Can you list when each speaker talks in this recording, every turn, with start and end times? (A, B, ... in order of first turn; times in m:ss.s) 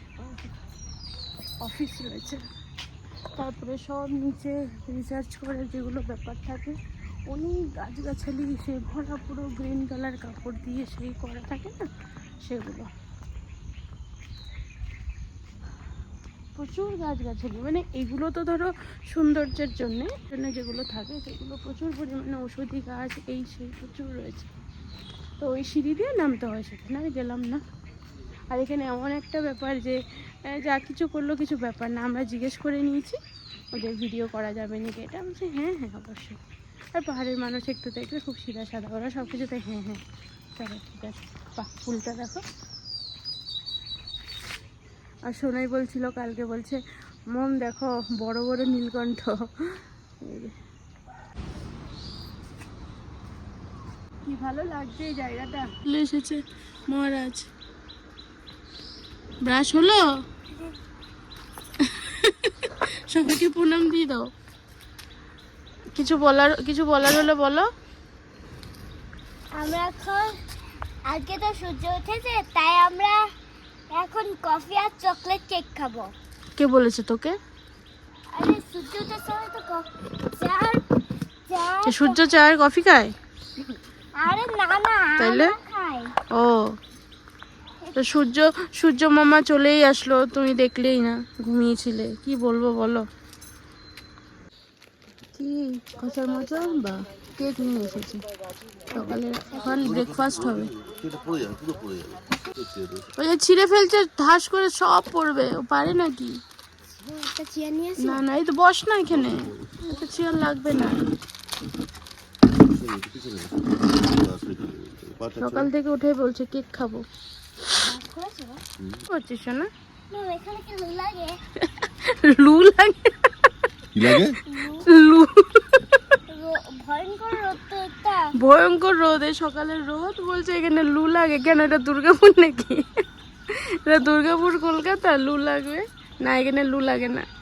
0:00.2-0:00.5 A
0:01.6-0:02.4 A
0:03.3-0:06.8 A
0:07.3-0:11.9 A
0:12.4-0:12.9 A
0:16.6-0:24.5 A
0:25.4-0:27.6 A
0:28.5-0:33.2 A
0:33.7-0:36.4 A
0:36.9-0:40.0 A
0:40.6-0:42.4 A
0:45.3-0:50.5 A
0:54.2-0:57.5 A
0:59.4-1:00.0 A
1:01.8-1:04.3 A
1:05.9-1:07.7 A
1:09.5-1:10.4 B
1:11.0-1:13.3 B
1:13.9-1:16.1 B
1:16.6-1:17.4 A
1:18.3-1:20.8 B
1:21.5-1:22.3 B
1:21.8-1:23.1 A
1:24.2-1:26.1 B
1:25.2-1:25.5 A
1:26.3-1:26.8 A
1:27.9-1:33.1 A
1:35.3-1:38.2 A
1:38.9-1:40.7 A
1:38.9-1:43.1 C
1:43.2-1:46.4 A
1:47.0-1:48.2 B
1:48.0-1:51.1 A
1:49.1-1:49.7 C
1:52.5-1:55.7 C
1:55.4-1:57.0 A
1:57.7-1:58.6 B
1:58.8-1:59.0 C
1:59.1-1:59.7 A
2:00.1-2:01.4 B
2:01.6-2:03.5 A
2:03.9-2:04.4 C
2:04.5-2:04.8 B
2:04.8-2:06.2 A
2:06.3-2:08.3 B
2:08.3-2:17.3 A